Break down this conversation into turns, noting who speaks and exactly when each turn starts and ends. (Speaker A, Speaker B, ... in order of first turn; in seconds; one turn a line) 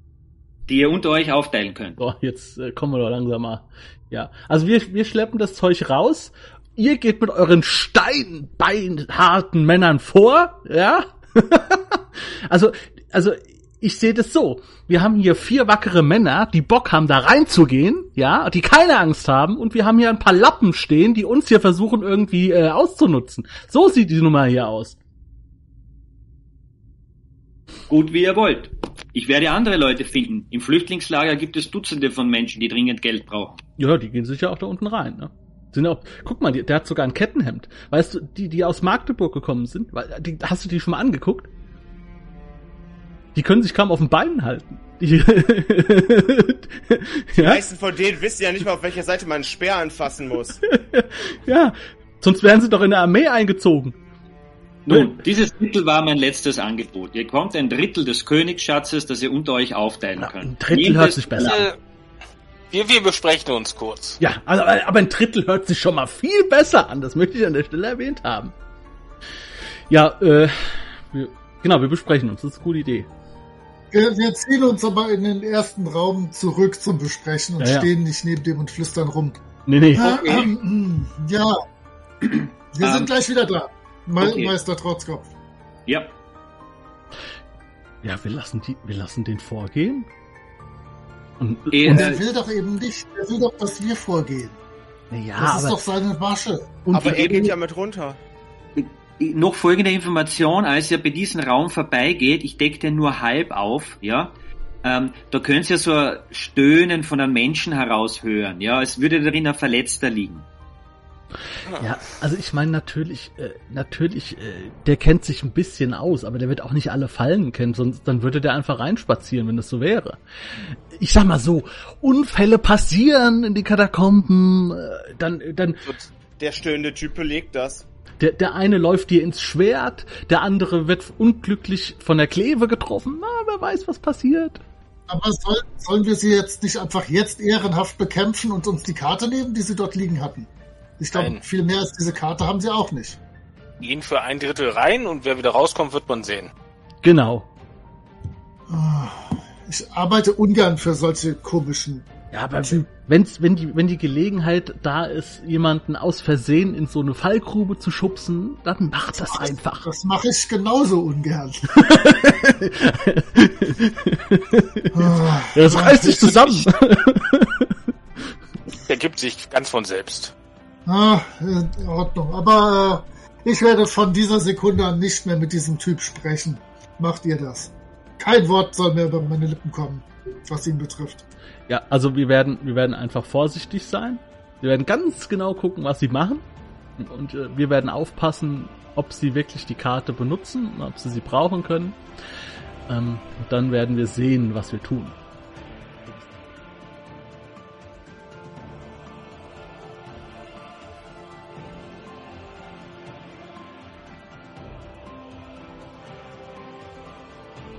Speaker A: 0.7-2.0
Speaker B: 2.0-25.0
Speaker A: 27.9-33.6
Speaker B: 33.8-41.5
Speaker B: 43.3-47.6
Speaker C: 47.4-50.6
Speaker B: 50.6-54.0
Speaker A: 54.9-61.6
Speaker B: 54.9-55.2
Speaker B: 60.2-61.6
Speaker D: 61.4-61.8
Speaker D: 62.7-64.2
Speaker B: 64.2-68.5
Speaker B: 69.9-73.1
Speaker E: 73.9-79.4
Speaker B: 77.6-77.9
Speaker B: 79.7-80.3
Speaker E: 79.9-81.6
Speaker A: 80.0-80.5
Speaker A: 82.2-83.1
Speaker E: 82.7-85.3
Speaker A: 84.2-84.5
Speaker A: 85.9-86.1
Speaker B: 88.0-90.0
Speaker B: 91.4-92.1
Speaker A: 91.7-92.2
Speaker E: 91.8-94.6
Speaker B: 95.1-95.8
Speaker E: 95.4-96.8
Speaker B: 96.8-97.5
Speaker C: 96.9-98.2
Speaker A: 97.0-97.5
Speaker A: 98.8-110.5
Speaker B: 111.8-120.2
Speaker B: 120.9-125.9
Speaker C: 126.4-127.8
Speaker B: 128.2-134.6
Speaker E: 135.1-143.2
Speaker D: 141.1-141.4
Speaker D: 143.8-146.5
Speaker B: 147.0-147.5
Speaker E: 148.7-152.1
Speaker B: 152.3-159.9
Speaker E: 159.3-161.8
Speaker B: 161.7-167.8
Speaker E: 164.9-166.7
Speaker D: 168.9-170.3
Speaker E: 170.8-181.2
Speaker B: 181.7-186.4
Speaker B: 187.0-192.0
Speaker B: 192.9-195.2